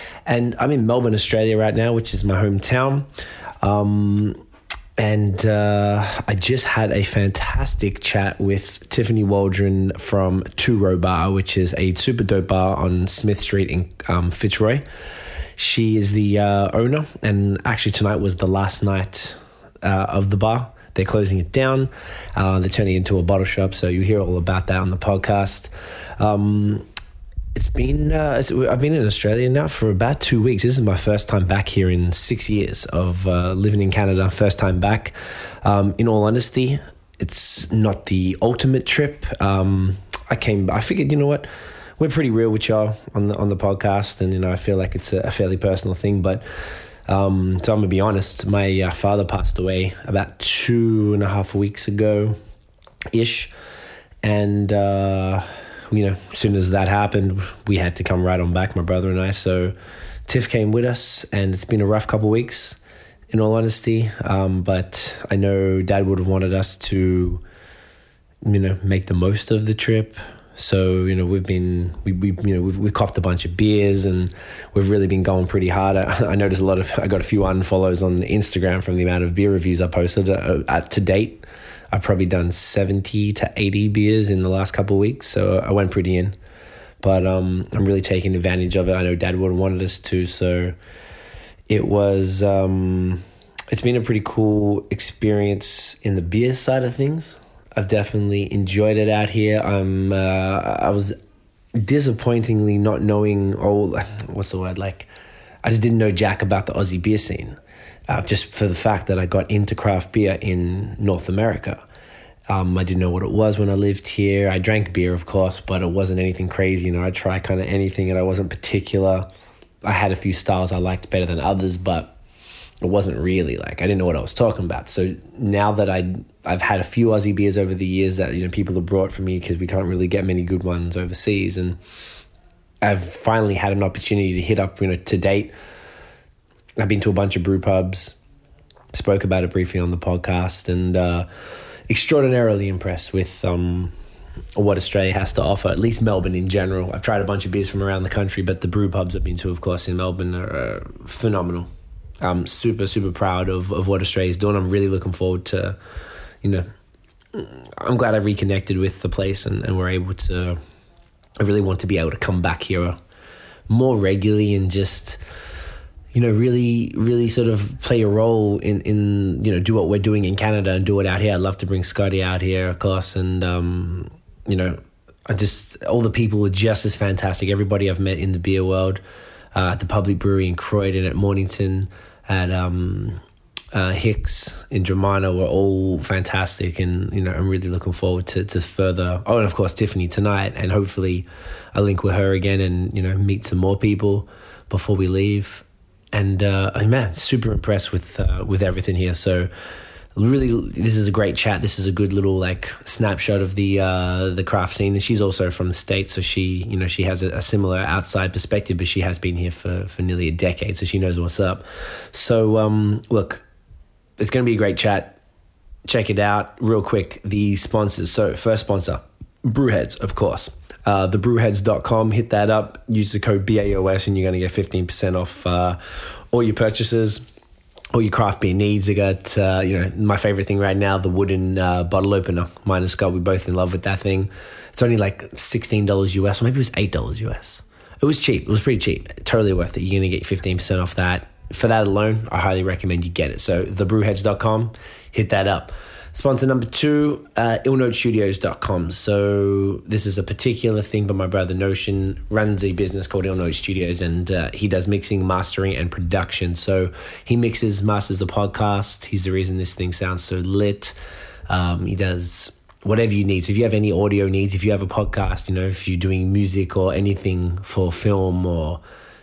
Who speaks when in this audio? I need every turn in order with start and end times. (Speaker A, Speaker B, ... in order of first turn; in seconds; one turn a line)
Speaker A: 0.3-3.1
Speaker A: 3.6-4.4
Speaker A: 5.0-14.8
Speaker A: 15.6-26.9
Speaker A: 27.6-46.4
Speaker A: 47.1-52.4
Speaker A: 53.1-53.5
Speaker A: 54.2-59.8
Speaker A: 60.3-62.8
Speaker A: 63.3-67.4
Speaker A: 68.4-86.3
Speaker A: 87.0-90.8
Speaker A: 91.7-101.2
Speaker A: 101.8-105.1
Speaker A: 105.6-111.8
Speaker A: 112.5-119.3
Speaker A: 119.8-122.2
Speaker A: 122.8-131.8
Speaker A: 132.8-135.5
Speaker A: 136.8-138.2
Speaker A: 138.9-141.3
Speaker A: 141.9-143.9
Speaker A: 144.6-151.7
Speaker A: 152.2-155.8
Speaker A: 156.4-156.7
Speaker A: 157.3-160.6
Speaker A: 161.4-163.0
Speaker A: 163.7-165.2
Speaker A: 166.1-179.0
Speaker A: 179.5-183.2
Speaker A: 183.7-199.5
Speaker A: 200.2-213.4
Speaker A: 214.2-215.2
Speaker A: 215.8-225.8
Speaker A: 226.3-227.2
Speaker A: 227.9-261.0
Speaker A: 261.5-268.8